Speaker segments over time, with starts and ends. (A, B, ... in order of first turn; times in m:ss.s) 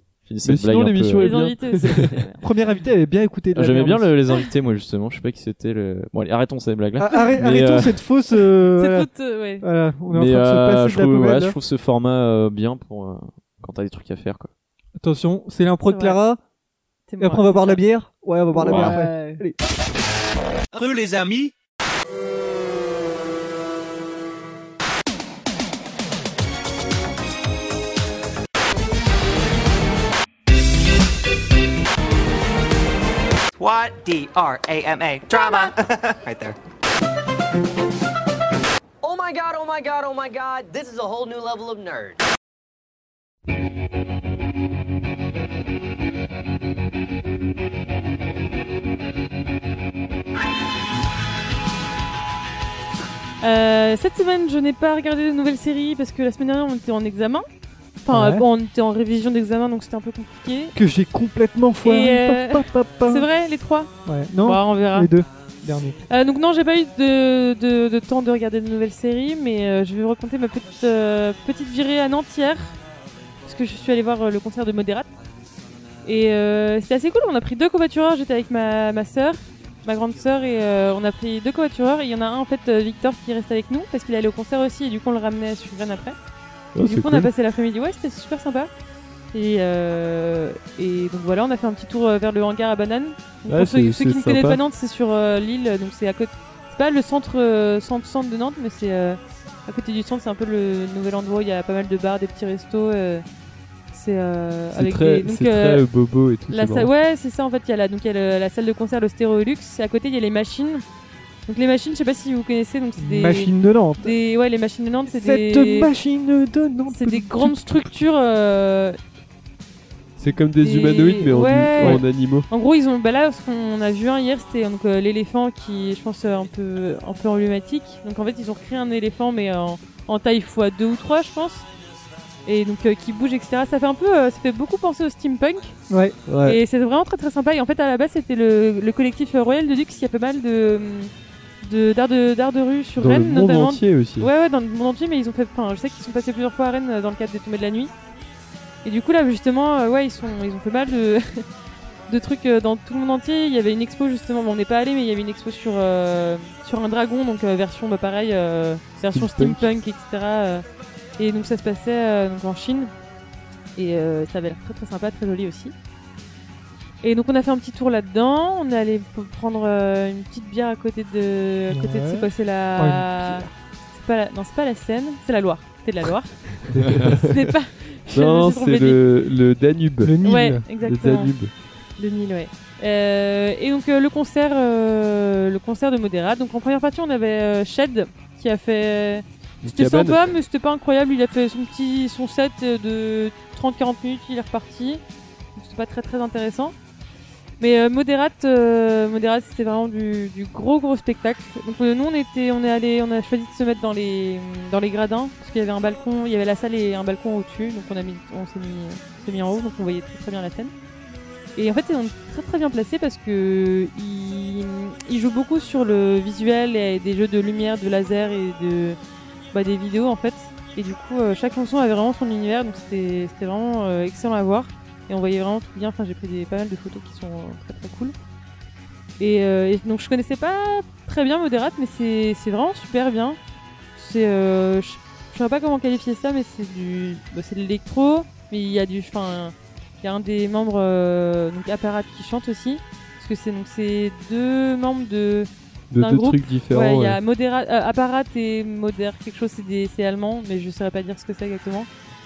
0:00.2-0:02.0 A
0:00.4-0:02.1 B
0:01.2-0:02.4 C
0:02.4-0:04.2 D
0:03.5-0:07.9 A
0:07.0-0:11.6 D
0:08.8-0:09.6 C
0:10.1-0:14.5 A
0:15.0-0:16.4 D
0:15.9-0:16.2 C
0:17.1-0:17.8 C
0:17.2-0:19.5 D
0:18.6-0:19.4 C
0:18.6-0:18.9 B
0:20.7-0:21.5 E
0:33.6-0:36.6 E
0:35.3-0:35.7 C
0:39.0-0:42.2 E
0:53.4-0:57.4 C
0:58.0-1:00.7 C
0:58.1-0:58.5 D
1:00.7-1:03.3 D
1:01.8-1:03.9 C
1:04.0-1:06.0 D
1:04.4-1:05.1 C
1:06.1-1:12.7 C
1:13.4-1:15.1 C
1:16.0-1:26.2 C
1:26.7-1:27.3 B
1:26.8-1:28.7 C
1:29.3-1:43.2 C
1:33.5-1:34.6 B
1:43.9-1:45.8 C
1:44.7-1:46.9 B
1:46.5-1:50.8 C
1:51.5-1:55.9 C
1:53.0-1:54.1 D
1:55.1-1:57.6 D
1:56.9-1:59.0 C
2:00.2-2:02.5 B
2:00.6-2:11.6 C
2:12.4-2:15.7 C
2:15.9-2:16.2 D
2:16.3-2:16.6 B
2:16.4-2:21.1 C
2:21.6-2:27.9 C
2:23.0-2:24.3 B
2:28.8-2:31.4 C
2:32.1-2:40.6 C
2:39.1-2:39.7 B
2:41.2-2:42.9 C
2:43.8-2:45.7 C
2:47.0-2:56.6 C
2:51.7-2:53.5 D
2:56.7-2:57.1 D
2:56.9-2:57.3 B
2:57.2-2:59.0 C
2:58.1-3:00.2 B
3:00.0-3:00.6 D
3:00.2-3:01.3 C
3:00.8-3:01.5 B
3:02.0-3:15.0 C
3:09.6-3:10.3 B
3:15.5-3:16.7 C
3:17.6-3:30.7 C
3:31.6-3:39.0 C
3:39.5-3:48.1 C
3:49.2-3:53.4 C
3:54.0-4:11.9 C
4:05.9-4:07.2 B